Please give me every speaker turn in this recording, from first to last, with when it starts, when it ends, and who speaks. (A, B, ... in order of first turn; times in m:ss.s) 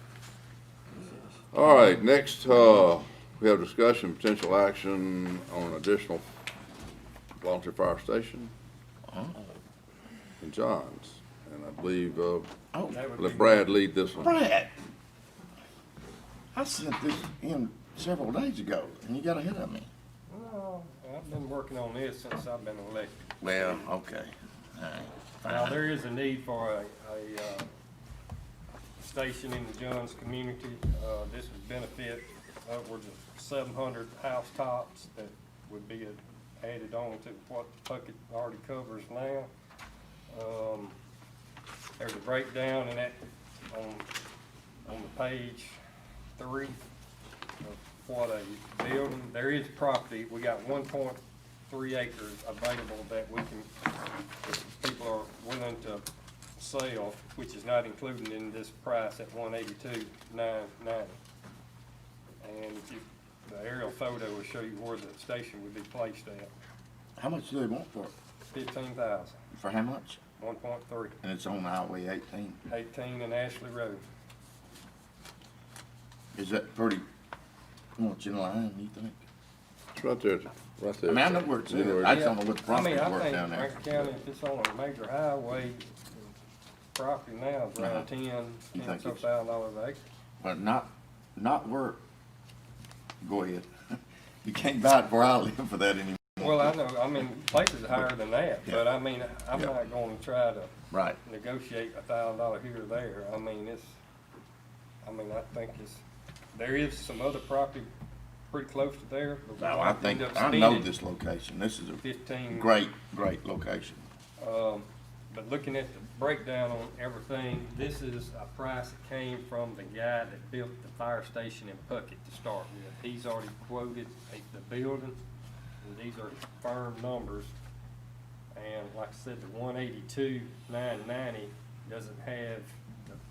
0:01.5-0:06.2 A
0:07.4-0:08.5 A
0:09.1-0:09.4 B
0:10.4-0:12.5 A
0:12.7-0:13.3 B
0:12.9-0:13.7 C
0:13.2-0:14.4 A
0:14.2-0:14.7 B
0:16.5-0:19.9 B
0:20.3-0:23.7 C
0:23.4-0:25.9 B
0:25.5-0:27.7 C
0:29.0-0:39.5 C
0:40.3-0:41.0 C
0:42.0-0:43.2 C
0:43.7-0:44.1 C
0:44.8-0:45.8 C
0:46.4-0:46.8 C
0:47.6-0:53.7 C
0:54.5-0:56.0 C
0:56.6-1:01.2 C
1:02.4-1:06.5 C
1:07.2-1:08.1 B
1:08.5-1:09.4 C
1:09.5-1:10.2 B
1:10.4-1:11.2 C
1:11.2-1:12.6 B
1:12.7-1:14.0 C
1:16.4-1:17.0 B
1:18.0-1:19.2 B
1:20.0-1:22.3 A
1:21.1-1:24.1 B
1:22.1-1:25.9 C
1:27.0-1:30.0 C
1:27.8-1:28.1 B
1:28.7-1:29.2 B
1:30.4-1:32.0 B
1:33.2-1:33.7 B
1:34.4-1:36.8 B
1:36.4-1:40.7 C
1:39.5-1:39.8 B
1:40.9-1:41.2 B
1:41.2-1:44.0 C
1:45.0-1:46.0 C
1:46.5-1:47.9 C
1:48.5-1:50.9 C
1:49.6-1:54.1 B
1:52.0-1:52.7 C
1:54.4-2:05.2 C
2:05.8-2:07.5 C
2:08.6-2:12.8 C